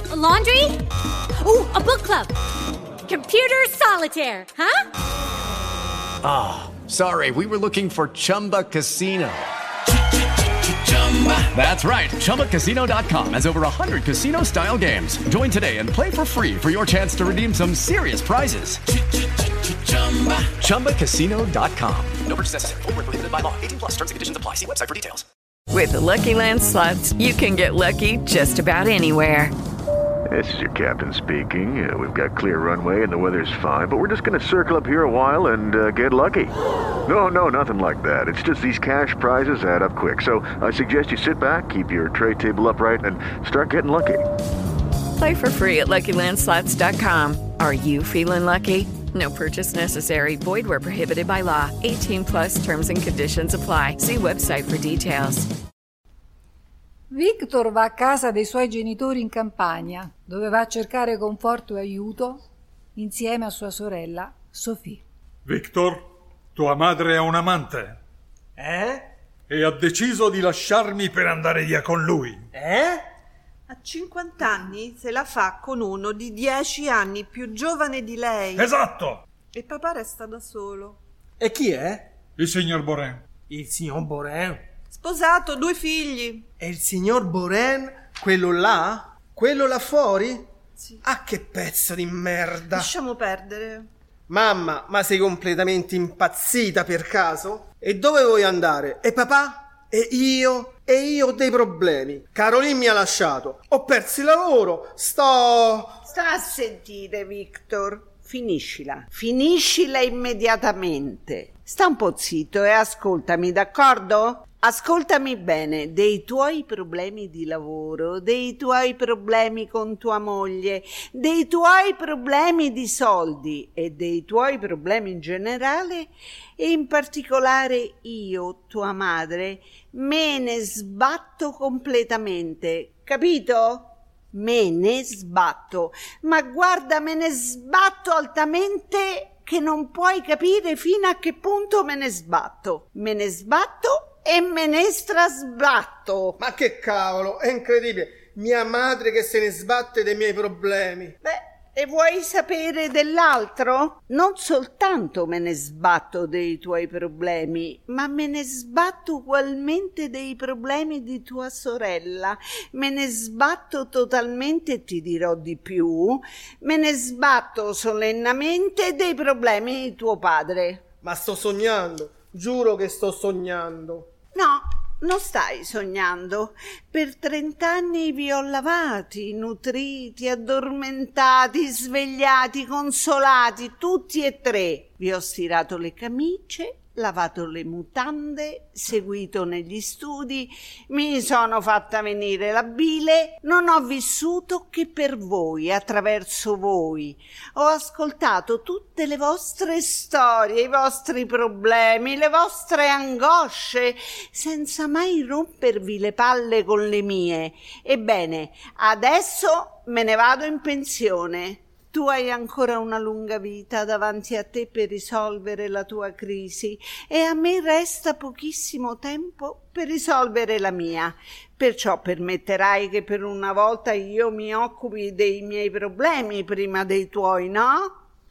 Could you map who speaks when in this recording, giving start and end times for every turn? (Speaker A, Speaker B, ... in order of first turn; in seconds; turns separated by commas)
Speaker A: 0.1-0.8, Speaker A: 1.4-2.3, Speaker A: 3.1-4.8, Speaker B: 6.2-9.4, Speaker B: 10.9-18.8, Speaker B: 19.9-25.2, Speaker C: 25.7-29.5, Speaker D: 30.3-36.5, Speaker D: 37.0-44.2, Speaker C: 45.2-55.5, Speaker E: 57.1-62.4, Speaker E: 63.0-65.0, Speaker F: 65.4-68.0, Speaker G: 68.6-69.0, Speaker F: 69.5-72.5, Speaker G: 72.5-73.0, Speaker H: 73.7-78.7, Speaker F: 78.5-79.2, Speaker H: 79.5-81.0, Speaker G: 81.4-82.1, Speaker F: 82.4-83.2, Speaker G: 83.5-84.6, Speaker H: 84.9-86.4, Speaker G: 86.6-90.5, Speaker G: 91.0-92.9, Speaker H: 92.8-93.9, Speaker G: 94.3-106.0, Speaker I: 106.1-146.4, Speaker G: 146.4-151.1, Speaker I: 151.2-170.8, Speaker G: 171.0-174.1, Speaker I: 174.3-227.9